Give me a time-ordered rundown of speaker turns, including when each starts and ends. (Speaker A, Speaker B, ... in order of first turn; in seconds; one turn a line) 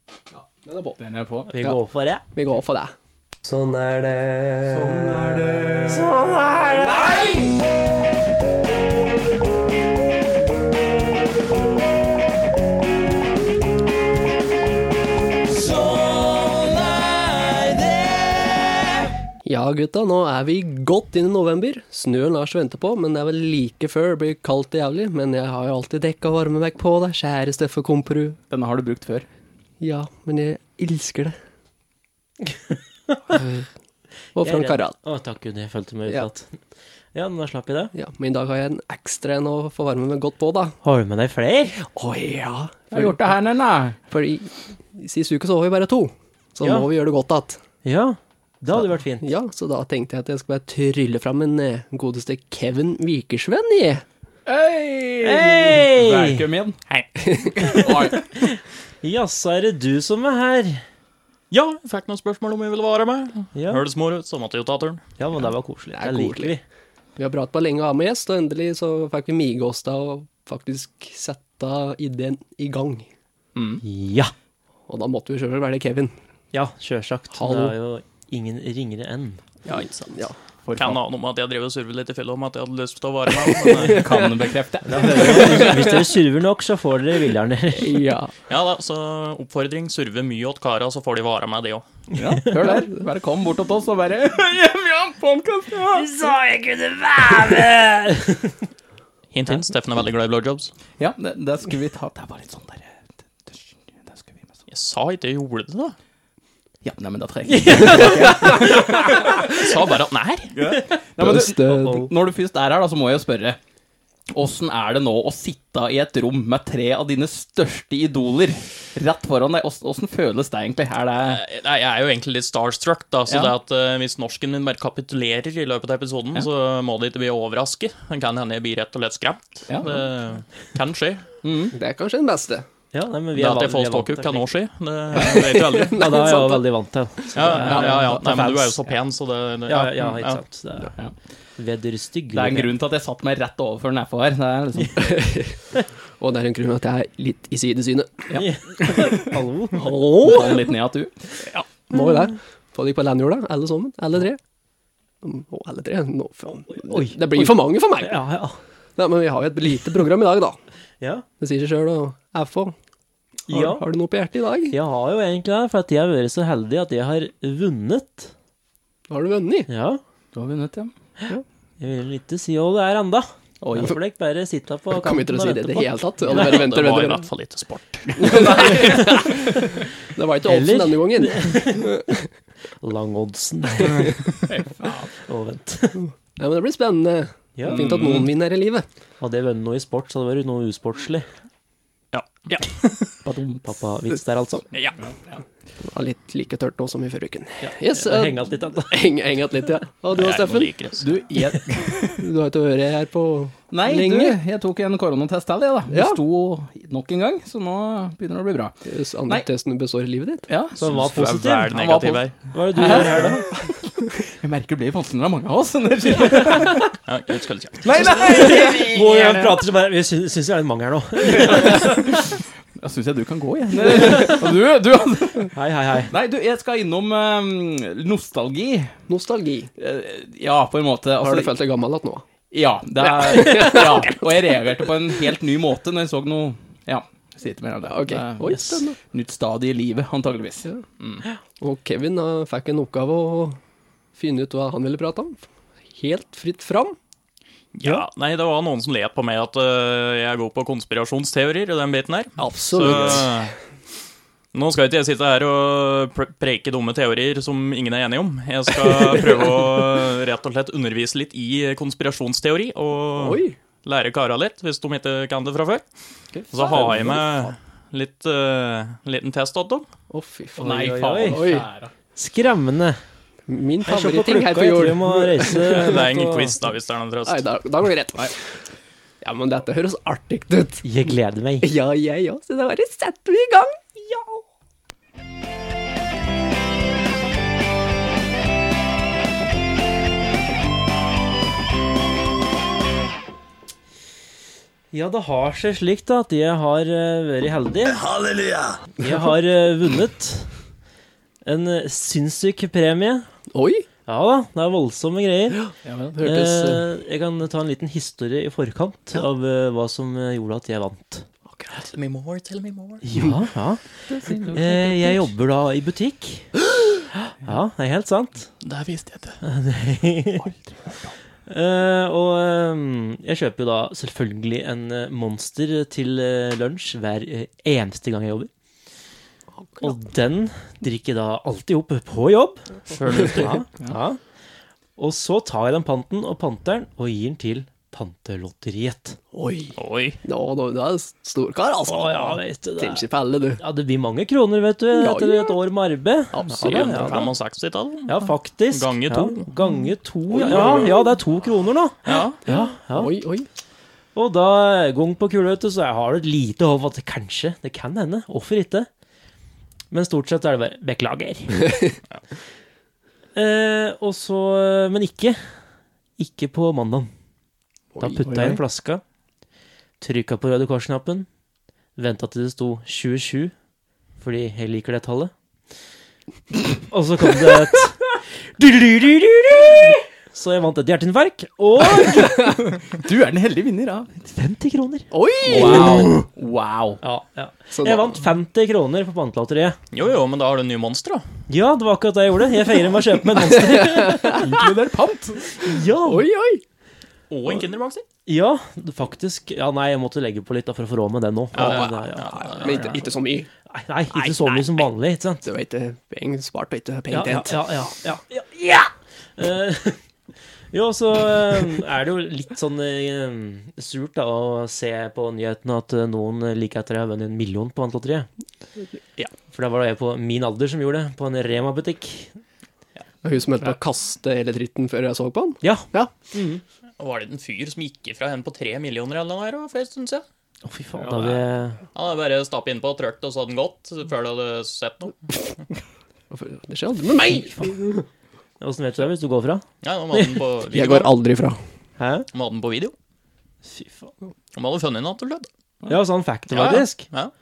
Speaker A: 0.3-1.0
Speaker B: 1.0-1.5
Speaker C: 1.5-2.2
Speaker A: 2.3-2.9
Speaker C: 3.4-5.2
Speaker A: 4.7-6.0
Speaker C: 5.9-7.0
Speaker A: 6.9-7.4
Speaker A: 19.4-28.4
Speaker B: 28.5-29.3
Speaker A: 29.8-31.4
Speaker C: 32.5-33.2
Speaker A: 33.3-33.6
Speaker A: 34.3-35.0
Speaker C: 34.4-36.6
Speaker C: 37.1-37.9
Speaker A: 37.9-40.8
Speaker C: 40.8-41.7
Speaker A: 41.8-43.2
Speaker B: 42.9-44.0
Speaker A: 44.1-47.6
Speaker C: 46.6-46.9
Speaker C: 47.8-49.3
Speaker A: 49.2-54.0
Speaker B: 54.5-56.8
Speaker C: 55.2-56.4
Speaker A: 57.2-57.5
Speaker B: 57.6-58.3
Speaker C: 57.6-60.8
Speaker D: 61.5-65.0
Speaker C: 63.5-63.8
Speaker C: 65.2-66.6
Speaker A: 65.9-66.5
Speaker A: 67.2-73.1
Speaker B: 73.5-73.8
Speaker C: 73.8-74.3
Speaker A: 74.9-76.2
Speaker C: 76.5-79.4
Speaker A: 77.3-77.7
Speaker A: 79.7-80.4
Speaker B: 80.6-81.0
Speaker D: 80.8-84.0
Speaker A: 83.5-84.5
Speaker B: 83.8-85.9
Speaker C: 84.9-88.0
Speaker A: 85.0-86.0
Speaker A: 87.8-88.3
Speaker D: 88.5-91.8
Speaker B: 92.1-96.1
Speaker A: 92.5-92.9
Speaker C: 95.9-98.7
Speaker D: 99.3-100.7
Speaker B: 101.0-102.9
Speaker B: 103.5-104.5
Speaker D: 104.7-105.9
Speaker B: 106.8-109.5
Speaker C: 107.5-109.3
Speaker A: 107.8-108.5
Speaker D: 109.5-110.5
Speaker B: 110.5-113.6
Speaker A: 111.2-111.9
Speaker C: 111.7-112.1
Speaker B: 114.3-121.4
Speaker D: 121.2-131.2
Speaker B: 123.3-123.5
Speaker B: 129.7-130.0
Speaker B: 131.4-131.7
Speaker A: 131.7-132.7
Speaker C: 132.9-134.5
Speaker D: 133.3-136.3
Speaker A: 135.1-136.6
Speaker C: 135.9-138.2
Speaker D: 137.3-140.4
Speaker B: 137.5-138.8
Speaker A: 137.6-138.1
Speaker C: 139.7-140.9
Speaker C: 141.6-142.7
Speaker B: 142.3-145.2
Speaker A: 145.0-145.7
Speaker A: 146.2-148.3
Speaker B: 148.3-149.3
Speaker C: 148.3-150.0
Speaker A: 149.7-150.7
Speaker B: 150.2-151.1
Speaker A: 151.5-154.4
Speaker A: 155.2-158.2
Speaker C: 156.7-158.6
Speaker A: 159.0-160.6
Speaker A: 161.4-162.7
Speaker C: 163.5-163.8
Speaker A: 163.5-164.8
Speaker C: 164.7-168.3
Speaker A: 169.1-169.7
Speaker C: 169.7-170.0
Speaker B: 170.3-170.9
Speaker C: 171.8-176.0
Speaker B: 173.6-173.9
Speaker A: 174.9-177.2
Speaker D: 176.3-178.8
Speaker A: 178.1-182.2
Speaker C: 180.4-182.1
Speaker C: 182.8-184.4
Speaker A: 183.8-184.1
Speaker B: 184.5-185.1
Speaker C: 185.2-186.0
Speaker A: 185.9-188.8
Speaker C: 187.6-188.0
Speaker B: 187.7-188.3
Speaker C: 189.2-191.3
Speaker D: 192.1-193.1
Speaker B: 193.2-193.7
Speaker C: 193.6-194.7
Speaker B: 195.0-195.4
Speaker A: 195.8-200.7
Speaker C: 197.6-199.1
Speaker D: 200.1-201.1
Speaker B: 201.0-202.2
Speaker A: 201.3-204.4
Speaker B: 203.7-208.7
Speaker A: 205.9-206.2
Speaker A: 208.8-210.5
Speaker B: 210.5-213.8
Speaker C: 210.8-211.8
Speaker D: 210.8-212.3
Speaker C: 212.5-213.4
Speaker B: 214.3-216.9
Speaker D: 217.1-218.1
Speaker B: 217.8-219.6
Speaker C: 217.9-222.1
Speaker B: 221.3-228.9
Speaker A: 223.8-224.3
Speaker C: 225.5-226.1
Speaker A: 229.1-229.7
Speaker B: 229.8-231.5
Speaker A: 231.2-232.2
Speaker B: 232.5-241.2
Speaker A: 233.0-234.2
Speaker A: 237.8-239.0
Speaker A: 241.6-243.6
Speaker A: 244.2-247.0
Speaker D: 247.7-253.5
Speaker A: 252.4-253.4
Speaker B: 252.8-253.2
Speaker D: 254.5-265.8
Speaker A: 263.1-263.6
Speaker C: 266.4-267.2
Speaker D: 266.5-269.8
Speaker A: 266.6-267.5
Speaker A: 270.1-271.6
Speaker B: 270.6-271.9
Speaker C: 270.6-271.5
Speaker C: 272.1-273.0
Speaker A: 273.5-276.0
Speaker C: 273.9-276.6
Speaker D: 275.7-277.4
Speaker A: 277.2-278.5
Speaker A: 279.2-280.9
Speaker C: 280.8-281.6
Speaker A: 281.6-284.4
Speaker C: 294.9-298.1
Speaker C: 299.0-300.5
Speaker C: 301.4-303.3
Speaker A: 303.5-303.9
Speaker C: 304.1-305.6
Speaker A: 305.6-306.8
Speaker B: 305.8-306.2
Speaker C: 306.2-311.2
Speaker A: 311.6-311.8
Speaker D: 311.7-313.0
Speaker C: 313.0-313.8
Speaker A: 314.1-315.2
Speaker C: 314.4-316.5
Speaker C: 317.4-318.5
Speaker D: 318.6-319.4
Speaker C: 319.4-320.5
Speaker C: 321.5-328.5
Speaker C: 329.8-332.7
Speaker D: 332.9-333.6
Speaker C: 333.2-334.2
Speaker C: 335.0-339.2
Speaker A: 339.3-343.6
Speaker D: 339.8-340.2
Speaker C: 341.9-343.0
Speaker C: 343.6-347.3
Speaker A: 344.9-345.6
Speaker A: 346.3-347.2
Speaker D: 346.5-349.5
Speaker C: 348.1-353.1
Speaker A: 350.3-350.9
Speaker D: 352.1-352.4
Speaker A: 352.4-353.5
Speaker C: 354.1-358.9
Speaker C: 359.9-361.8
Speaker C: 363.3-365.4
Speaker C: 366.2-367.1
Speaker A: 367.9-368.6
Speaker C: 368.0-369.0
Speaker C: 370.0-371.3
Speaker C: 372.0-373.5
Speaker C: 374.2-375.3
Speaker C: 376.7-382.6
Speaker B: 382.8-384.2
Speaker C: 384.2-386.2
Speaker A: 385.1-386.2
Speaker B: 385.5-387.0
Speaker C: 387.0-389.8
Speaker A: 387.7-388.1
Speaker D: 389.9-391.2
Speaker C: 391.5-394.4
Speaker A: 393.3-394.5
Speaker B: 394.3-395.6
Speaker C: 395.6-396.3
Speaker A: 396.0-396.6
Speaker D: 397.3-398.1
Speaker C: 398.2-403.0
Speaker D: 401.5-403.0
Speaker A: 401.6-403.5
Speaker C: 403.7-405.4
Speaker D: 404.1-404.8
Speaker A: 405.4-407.6
Speaker C: 407.1-410.0
Speaker C: 410.7-418.3
Speaker C: 419.5-422.4
Speaker A: 423.2-426.1
Speaker C: 425.6-426.6
Speaker D: 427.0-430.2
Speaker C: 430.6-431.8
Speaker D: 431.9-435.3
Speaker A: 436.3-438.1
Speaker C: 437.2-437.7
Speaker C: 438.6-440.4
Speaker D: 439.8-441.1
Speaker A: 440.7-441.6
Speaker C: 442.0-442.3
Speaker D: 442.3-442.9
Speaker C: 443.6-444.1
Speaker D: 444.5-445.5
Speaker C: 445.9-447.1
Speaker D: 446.5-447.3